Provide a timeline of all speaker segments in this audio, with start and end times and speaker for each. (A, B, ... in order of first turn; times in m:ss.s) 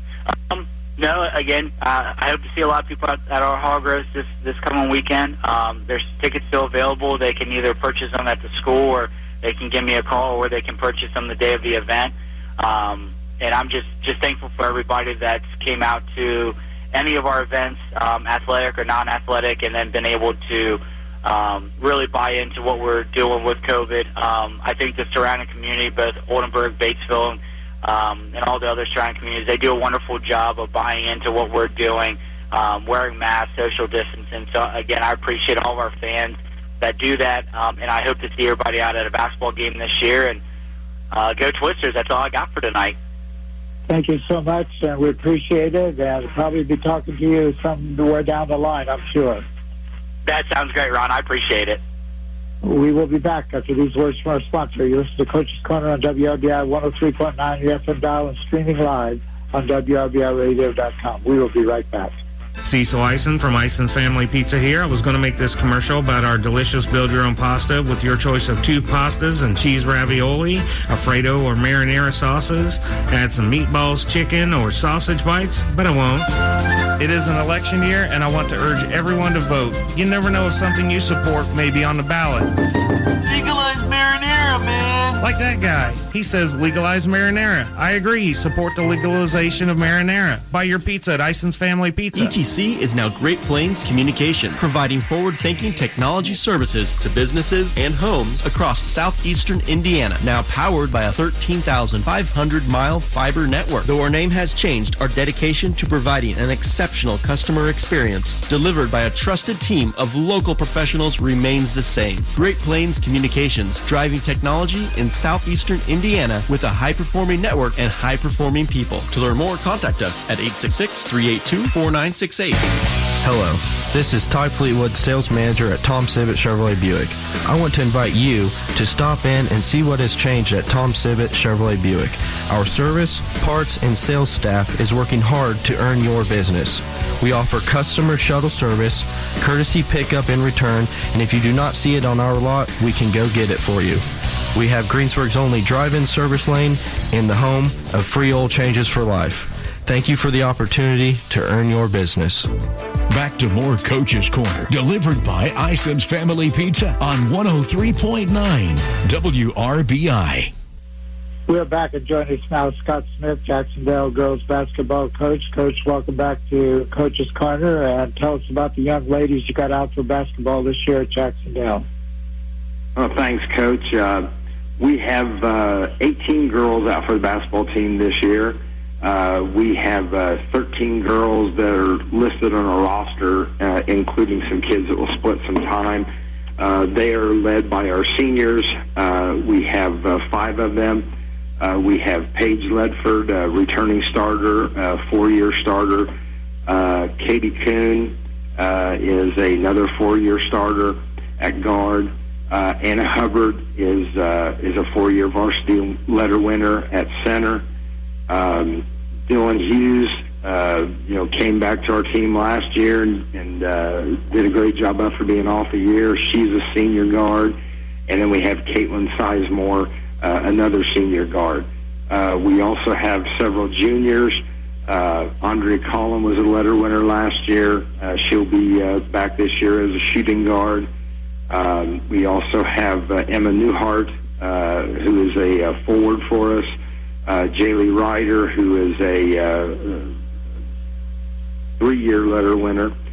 0:00.5-0:40.4 A
0:41.1-0:43.0 A
0:43.9-0:49.4 B
0:50.3-0:51.8 A
0:52.6-1:02.2 B
1:02.6-1:16.3 C
1:17.0-1:22.5 C
1:23.2-1:25.2 D
1:25.2-1:32.3 C
1:32.1-2:02.6 E
2:03.2-2:32.5 F
2:33.1-2:40.5 G
2:41.5-2:51.8 B
2:53.0-2:54.3 H
2:54.8-3:11.1 H
3:11.6-3:16.1 H
3:16.7-3:27.6 H
3:28.3-3:37.6 H
3:38.1-3:50.9 H
3:51.5-3:56.7 H
3:57.3-4:00.1 H
4:01.8-4:02.9 H